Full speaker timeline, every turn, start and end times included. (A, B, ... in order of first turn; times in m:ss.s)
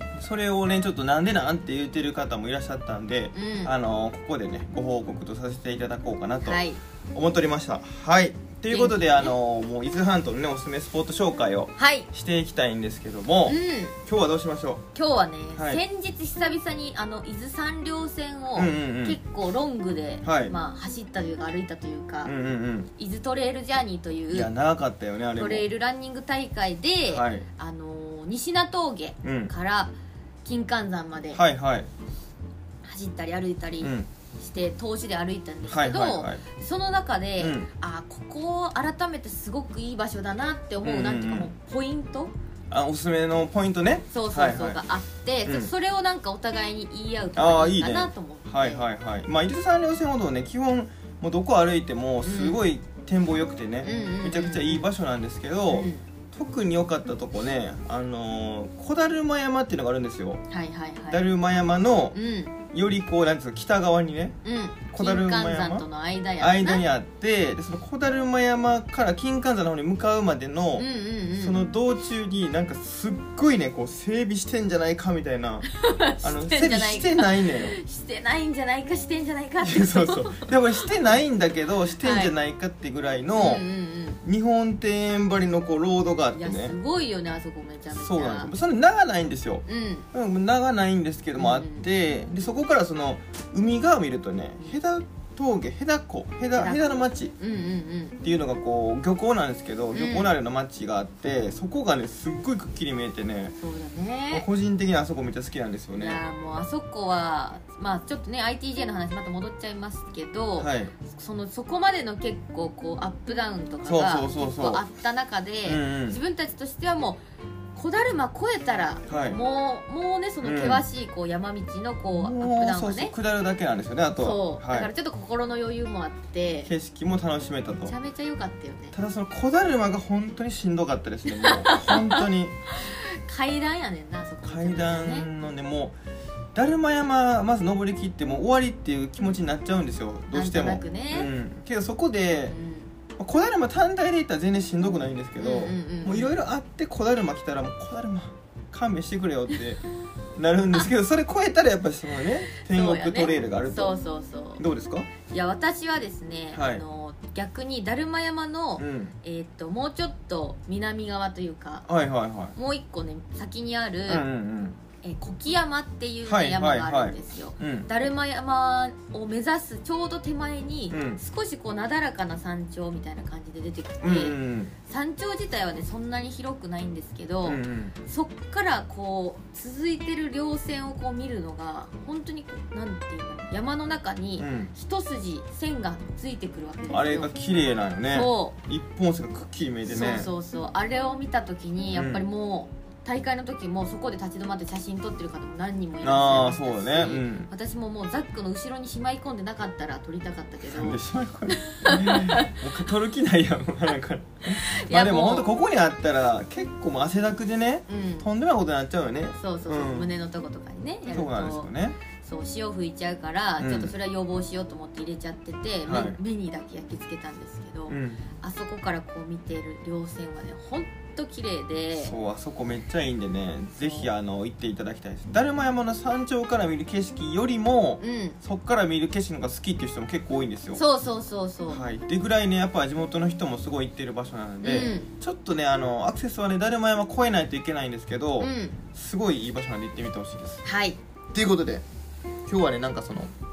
0:00.2-0:14.8 A
0:03.3-0:03.7 B
0:06.4-0:06.8 B
0:08.7-0:09.3 B
0:11.8-0:12.1 B
0:13.4-0:14.0 B
0:14.9-0:22.3 B
0:15.6-0:15.8 A
0:18.5-0:19.2 A
0:20.2-0:20.5 A
0:22.2-0:22.9 A
0:23.0-0:24.5 B
0:24.3-0:25.6 A
0:25.4-0:29.9 B
0:27.1-0:27.4 A
0:29.2-0:29.5 A
0:30.4-0:31.4 B
0:31.3-0:31.9 A
0:32.8-0:42.3 B
0:33.8-0:34.1 A
0:35.6-0:36.4 A
0:37.4-0:37.7 A
0:40.8-0:41.5 A
0:42.7-0:44.8 A
0:44.1-0:48.8 B
0:45.4-0:45.7 A
0:47.4-1:00.4 A
0:52.2-0:52.6 B
0:53.8-0:54.9 B
0:55.7-0:56.0 B
1:00.5-1:01.2 B
1:01.1-1:02.2 A
1:02.1-1:02.6 B
1:02.7-1:04.4 A
1:04.4-1:06.8 B
1:04.9-1:05.8 A
1:06.4-1:10.8 A
1:10.8-1:11.6 B
1:11.4-1:15.7 A
1:15.7-1:20.5 B
1:16.2-1:17.8 A
1:19.6-1:23.6 A
1:22.0-1:22.3 B
1:23.4-1:24.2 B
1:24.2-1:26.8 A
1:26.3-1:28.5 B
1:27.9-1:37.3 A
1:29.7-1:30.1 B
1:31.4-1:31.8 B
1:36.5-1:38.2 B
1:38.2-1:43.5 A
1:39.9-1:40.3 B
1:43.6-1:44.4 B
1:44.3-1:46.2 A
1:45.9-1:57.2 B
1:50.6-1:50.9 A
1:53.8-1:54.8 A
1:55.6-1:56.2 A
1:57.7-2:03.1 B
1:59.1-1:59.4 A
2:00.4-2:00.8 A
2:02.1-2:04.9 A
2:04.2-2:06.7 B
2:06.6-2:07.9 A
2:07.9-2:08.9 B
2:08.9-2:12.6 A
2:11.4-2:15.3 B
2:14.4-2:16.0 A
2:16.5-2:22.6 A
2:20.3-2:21.3 B
2:22.5-2:22.9 B
2:23.2-2:29.8 A
2:25.4-2:26.3 B
2:30.4-2:34.0 A
2:32.5-2:34.6 B
2:34.6-2:35.1 A
2:35.3-2:41.8 B
2:36.5-2:36.8 A
2:38.8-2:39.1 A
2:41.9-2:42.5 A
2:42.5-2:44.2 B
2:44.1-2:44.8 A
2:45.0-3:07.3 B
2:46.2-2:47.9 A
2:50.9-2:51.2 A
2:54.0-2:54.7 A
2:57.4-2:57.9 A
3:04.4-3:04.7 A
3:06.9-3:10.3 A
3:08.1-3:08.6 B
3:09.8-3:22.6 B
3:11.9-3:12.2 A
3:16.0-3:17.5 A
3:20.6-3:30.1 A
3:24.4-3:25.5 B
3:27.9-3:28.3 B
3:29.4-3:42.1 B
3:31.1-3:32.0 A
3:33.6-3:33.9 A
3:35.8-3:36.2 A
3:37.9-3:38.2 A
3:41.9-3:50.8 A
3:43.7-3:44.1 B
3:48.0-3:48.4 B
3:50.7-3:51.8 B
3:51.7-4:00.6 A
3:54.6-3:55.1 B
3:58.4-3:58.8 B
4:00.6-4:01.0 B
4:01.3-4:01.8 A
4:02.4-4:03.3 A